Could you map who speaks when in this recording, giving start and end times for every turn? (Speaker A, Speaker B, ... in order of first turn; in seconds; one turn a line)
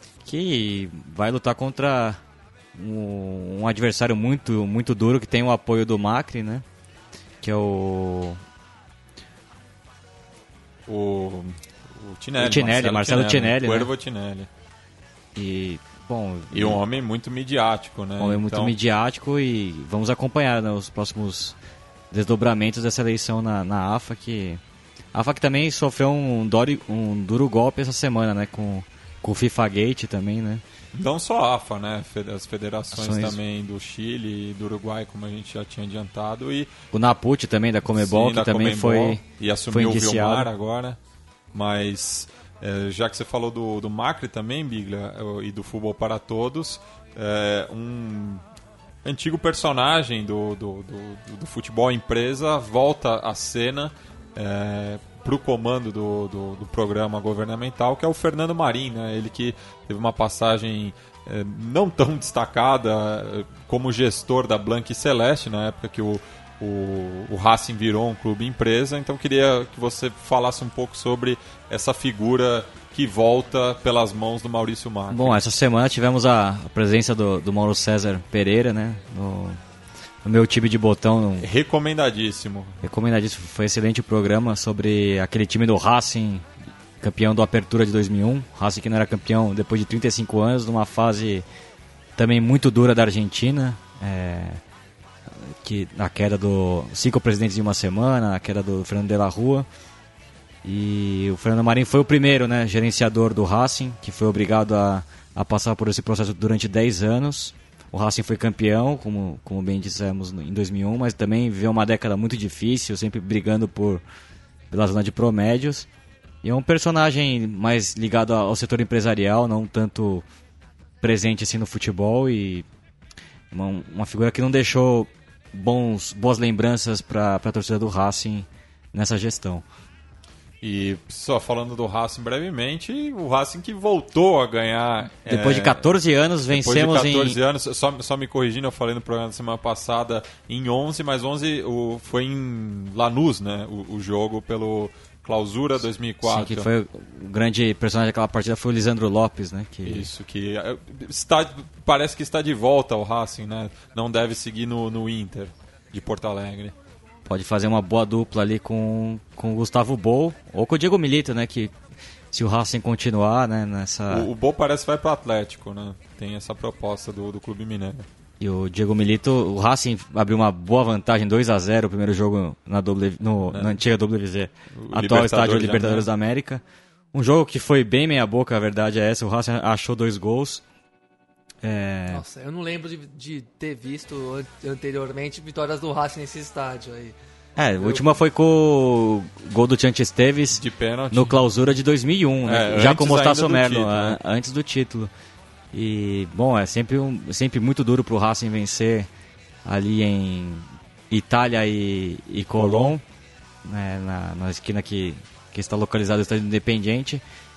Speaker A: 0.2-2.2
Speaker A: 2.7-6.6
Speaker A: 7.4-8.4
Speaker B: 10.9-14.5
Speaker A: 12.4-13.9
Speaker A: 15.3-16.8
Speaker B: 16.5-18.7
Speaker A: 18.2-21.6
Speaker A: 22.1-24.6
Speaker A: 25.1-30.6
Speaker B: 30.9-36.7
Speaker A: 32.9-33.4
Speaker A: 36.9-40.5
Speaker B: 37.9-41.0
Speaker B: 41.5-48.4
Speaker B: 49.0-75.4
Speaker A: 75.1-79.6
Speaker A: 80.2-81.5
Speaker B: 81.4-82.8
Speaker A: 82.8-86.5
Speaker A: 87.0-91.4
Speaker A: 92.2-94.6
Speaker A: 95.4-99.7
Speaker A: 100.6-114.0
Speaker A: 114.7-115.9
Speaker A: 116.4-120.2
Speaker A: 121.0-122.7
Speaker A: 123.5-129.6
Speaker B: 130.6-135.9
Speaker A: 135.2-137.4
Speaker B: 136.5-146.7
Speaker A: 146.2-150.1
Speaker B: 149.8-156.7
Speaker A: 157.2-161.7
Speaker A: 162.3-164.3
Speaker B: 164.1-168.1
Speaker A: 168.4-176.6
Speaker B: 173.5-173.8
Speaker B: 174.8-176.1
Speaker A: 177.1-180.6
Speaker A: 181.6-182.2
Speaker C: 182.1-187.1
Speaker A: 187.6-195.1
Speaker C: 187.8-188.1
Speaker B: 190.5-191.4
Speaker B: 192.4-194.2
Speaker A: 195.7-199.1
Speaker A: 199.6-203.0
Speaker B: 202.6-202.9
Speaker A: 203.6-207.2